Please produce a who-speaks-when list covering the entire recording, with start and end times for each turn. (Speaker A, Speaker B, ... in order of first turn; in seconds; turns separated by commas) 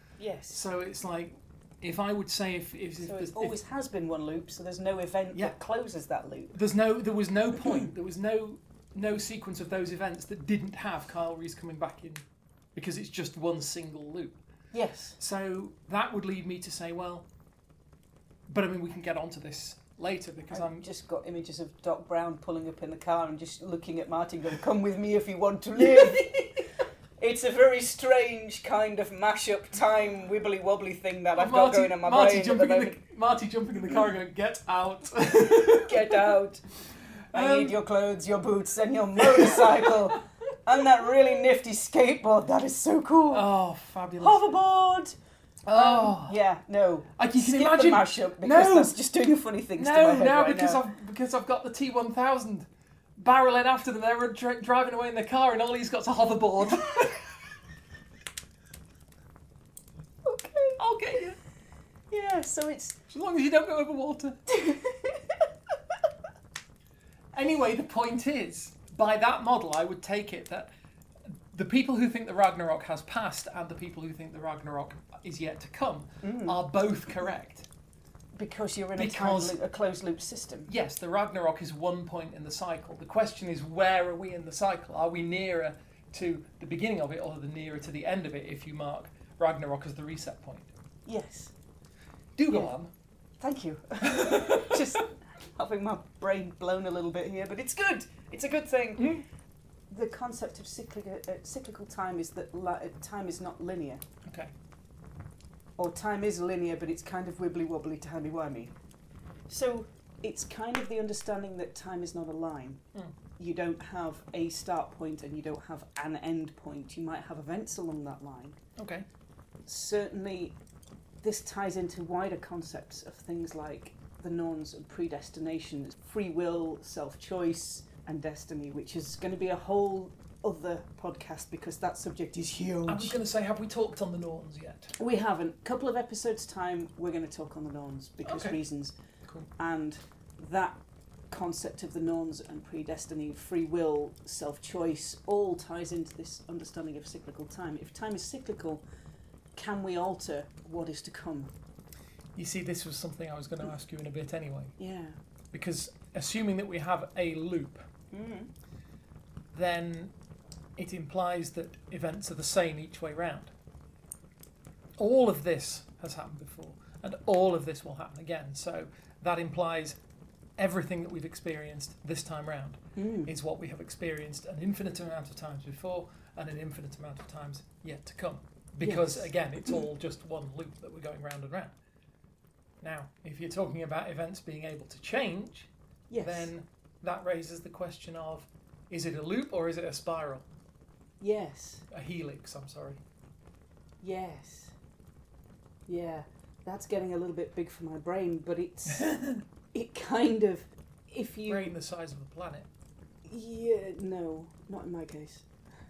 Speaker A: 0.2-0.6, Speaker B: 0.5-3.6, Speaker A: 3.0-6.6, Speaker B: 6.5-14.4, Speaker A: 14.7-15.2, Speaker B: 15.2-17.3, Speaker B: 18.5-20.9, Speaker A: 20.5-26.6, Speaker B: 25.8-26.2, Speaker A: 27.2-33.0, Speaker B: 31.4-36.3, Speaker A: 35.5-36.6, Speaker A: 37.3-43.5, Speaker B: 37.3-37.8, Speaker B: 39.2-40.1, Speaker B: 43.3-44.5, Speaker A: 44.2-45.1, Speaker B: 45.6-46.4, Speaker A: 45.7-50.8, Speaker B: 47.2-49.0, Speaker B: 49.8-57.3, Speaker A: 60.2-61.2, Speaker B: 60.8-61.4, Speaker A: 62.1-63.0, Speaker B: 63.1-64.4, Speaker A: 64.5-65.4, Speaker B: 67.3-70.7, Speaker B: 71.3-77.7, Speaker A: 76.2-76.6, Speaker A: 78.3-80.7, Speaker B: 79.0-79.6, Speaker B: 80.7-90.7, Speaker A: 91.0-91.5, Speaker B: 92.3-92.9, Speaker A: 93.4-99.2, Speaker B: 94.0-95.0, Speaker B: 99.0-99.2, Speaker A: 99.9-104.0, Speaker B: 104.2-104.5, Speaker A: 105.8-108.7, Speaker A: 109.5-112.8, Speaker A: 113.4-118.6, Speaker B: 118.8-119.0, Speaker A: 119.7-120.6, Speaker A: 121.2-133.2, Speaker B: 132.8-134.9, Speaker A: 135.0-138.9, Speaker B: 138.2-138.6, Speaker A: 139.6-140.8, Speaker A: 141.3-148.8, Speaker A: 149.6-151.5, Speaker B: 152.3-154.7, Speaker A: 154.8-155.2, Speaker B: 155.5-157.8, Speaker A: 158.1-158.5, Speaker B: 159.5-160.1, Speaker B: 160.8-163.5, Speaker B: 165.0-170.0, Speaker B: 170.6-181.7, Speaker A: 172.9-173.3, Speaker A: 178.8-179.3, Speaker B: 182.8-185.7, Speaker A: 186.1-186.5, Speaker B: 186.2-190.5, Speaker A: 191.2-191.8, Speaker B: 191.9-193.0, Speaker A: 194.0-194.7, Speaker A: 195.9-201.7, Speaker B: 198.9-199.4, Speaker B: 201.5-202.7, Speaker A: 203.2-205.5